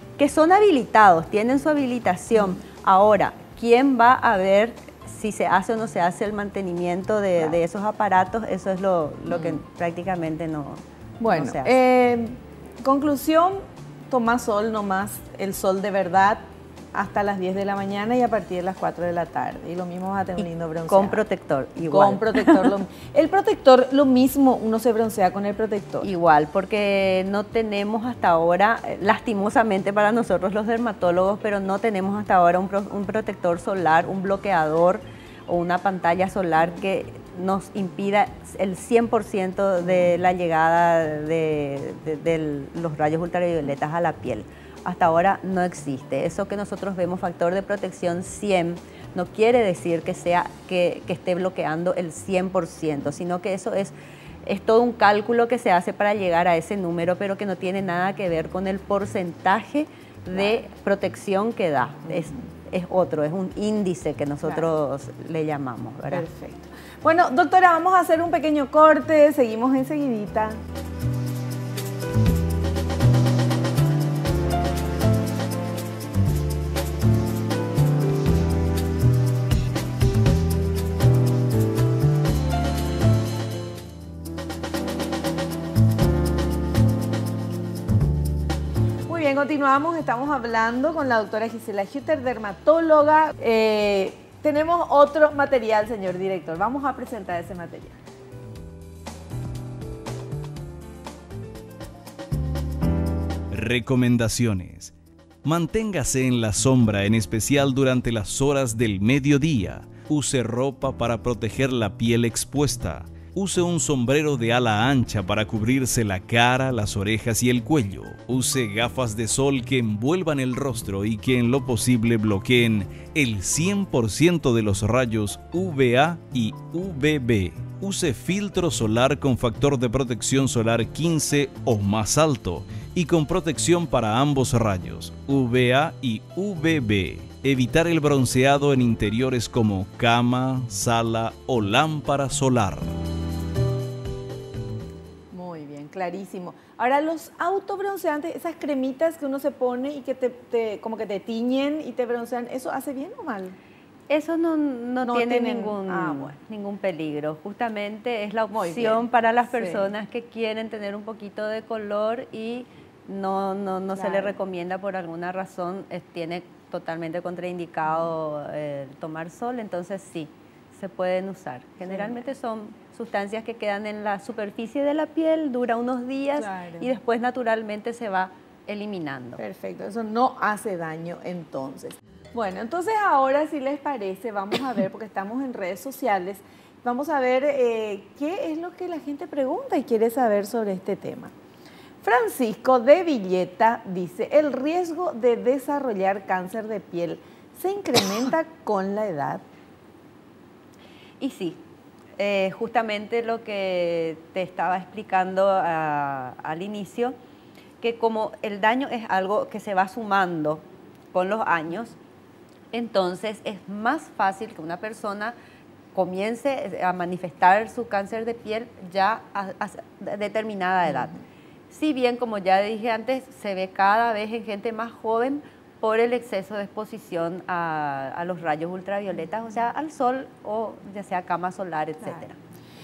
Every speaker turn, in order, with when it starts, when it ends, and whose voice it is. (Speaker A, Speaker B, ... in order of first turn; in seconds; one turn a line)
Speaker A: 0.2-11.7
Speaker B: 9.3-9.6
Speaker B: 11.2-16.4
Speaker B: 16.9-21.2
Speaker A: 20.9-22.7
Speaker B: 21.8-26.1
Speaker A: 26.0-53.9
Speaker A: 54.4-66.2
Speaker B: 62.1-62.4
Speaker B: 64.4-64.7
Speaker B: 66.1-70.6
Speaker B: 89.1-98.0
Speaker C: 103.5-104.9
Speaker C: 105.4-142.9
Speaker B: 145.3-153.6
Speaker A: 154.1-179.4
Speaker B: 155.0-156.3
Speaker B: 158.5-159.9
Speaker B: 163.9-164.4
Speaker B: 171.8-172.1
Speaker B: 176.4-176.9
Speaker B: 179.4-191.3
Speaker B: 192.0-199.4
Speaker A: 201.2-201.6
Speaker A: 202.2-207.1
Speaker A: 207.8-211.9
Speaker A: 212.7-215.3
Speaker A: 215.9-221.2
Speaker A: 221.7-232.4